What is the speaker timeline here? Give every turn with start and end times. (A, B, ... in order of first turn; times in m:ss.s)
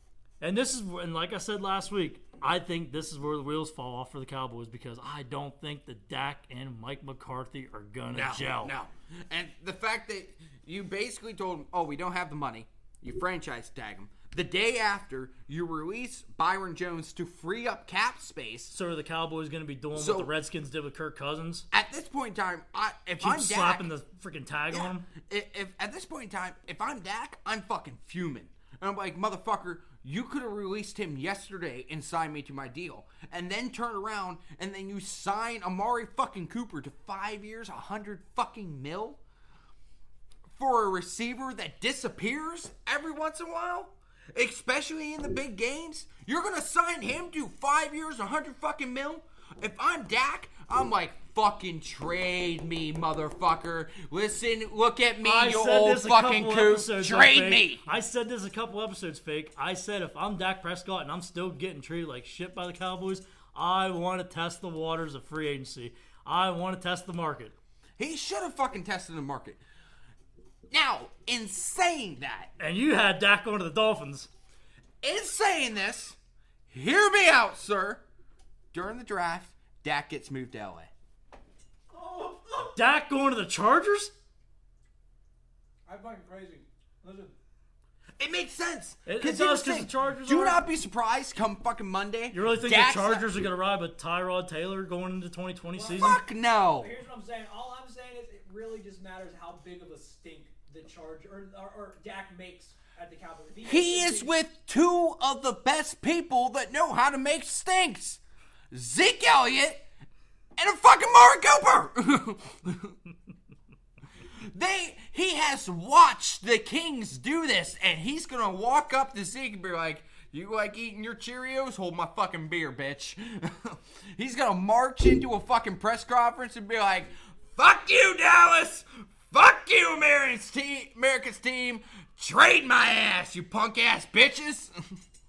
0:00.4-0:08.7 A
0:08.1-0:18.8 B
0:18.7-0:21.7 A
0:19.9-0:20.3 B
0:21.7-0:23.9 B
0:23.2-0:25.1 A
0:24.7-0:39.2 B
0:40.5-0:57.8 B
0:55.2-1:07.6 A
1:08.0-1:09.6 B
1:10.7-1:12.5 B
1:12.6-1:14.3 A
1:15.0-1:16.2 B
1:16.7-1:18.0 B
1:18.7-1:20.9 B
1:21.9-1:22.8 C
1:22.8-1:24.1 A
1:25.9-1:27.3 C
1:28.2-1:33.3 B
1:29.1-1:30.6 A
1:32.3-1:36.2 A
1:35.7-1:44.3 C
1:36.0-1:36.9 B
1:43.6-1:49.8 B
1:50.6-1:53.0 B
1:54.2-2:15.0 B